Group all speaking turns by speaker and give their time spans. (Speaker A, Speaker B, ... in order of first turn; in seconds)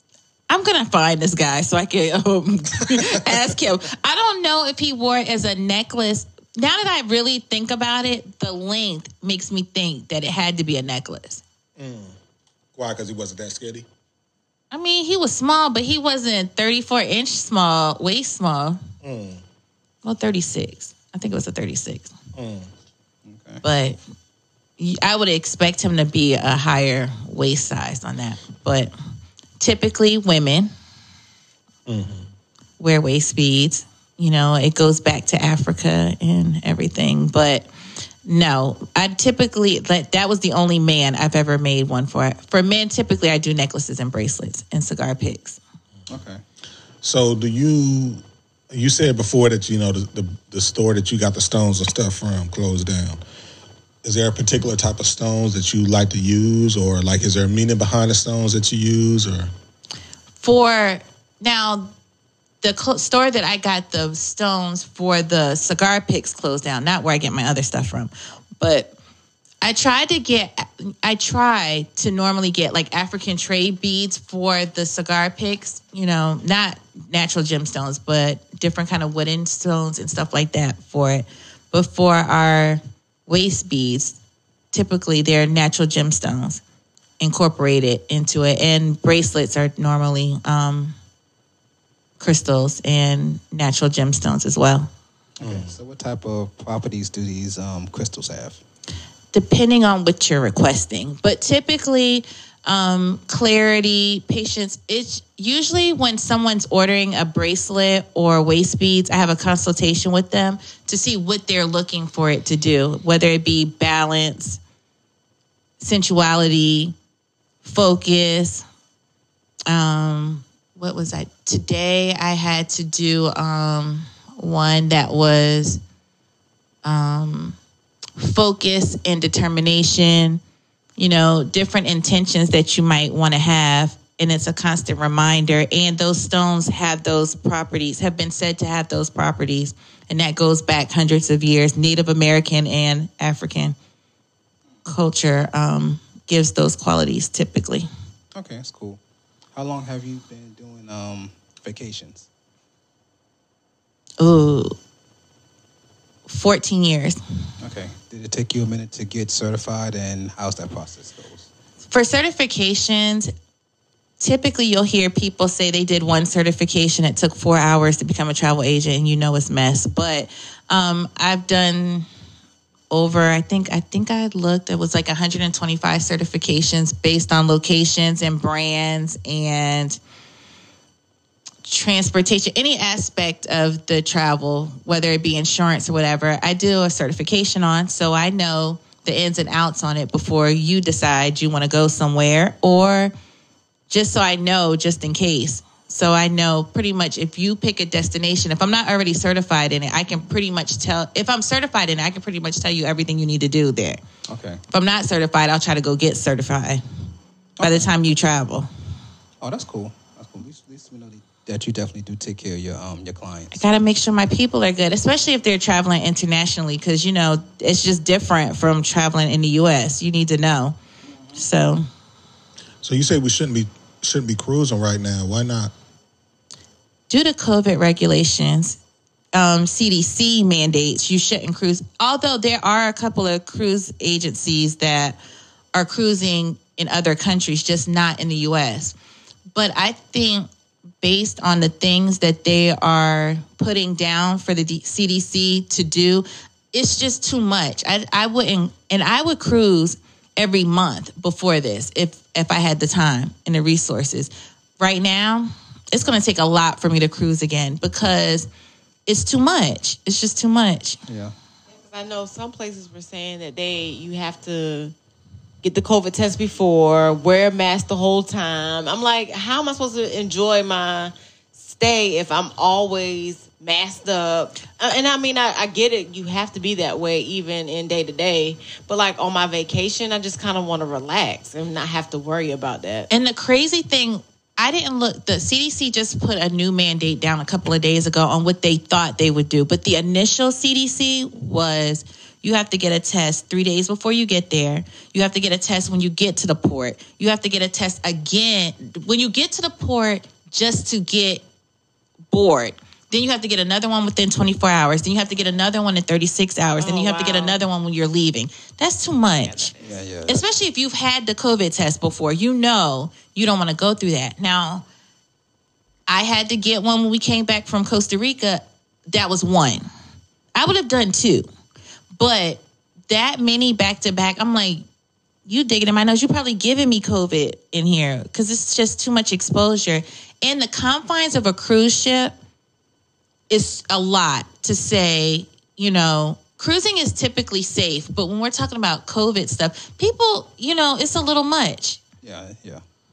Speaker A: 0.5-11.4, 14.7-18.8, 20.0-22.1, 23.6-24.0, 24.8-28.9, 29.6-30.7, 32.8-37.7, 38.2-45.6, 60.4-61.9, 62.6-69.0, 69.6-84.2, 84.7-86.6, 87.2-90.9, 92.2-94.9, 99.3-114.6, 115.8-116.9, 117.6-118.6, 119.7-125.8, 126.8-127.5, 128.2-130.4, 131.0-143.8, 144.8-147.9, 154.2-154.7, 156.3-157.2, 161.9-163.3, 164.2-172.1, 172.9-180.0, 181.6-193.1, 193.9-204.0, 204.7-206.8, 207.6-208.7, 213.5-220.7, 221.3-221.8, 227.1-228.8, 229.3-235.2, 235.7-238.9, 239.5-240.5, 241.0-258.5, 259.1-261.0, 283.1-301.4, 302.3-309.7, 310.3-314.8, 316.1-319.9, 320.5-321.4, 322.2-324.8, 325.4-332.3, 333.5-342.0
Speaker B: 11.8-12.1, 12.8-13.9, 19.0-19.4, 22.3-22.7, 31.9-32.2, 47.0-53.2, 54.0-59.5, 95.4-95.7, 222.8-225.7
Speaker C: 23.2-23.6, 46.1-46.4, 95.4-98.6, 148.3-149.0, 149.5-152.3, 157.6-161.5, 204.3-204.6, 207.6-207.9, 209.4-213.7, 261.1-261.3, 309.8-310.4, 342.2-342.8
Speaker D: 261.7-264.9, 265.6-283.1, 306.8-307.6, 309.4-309.9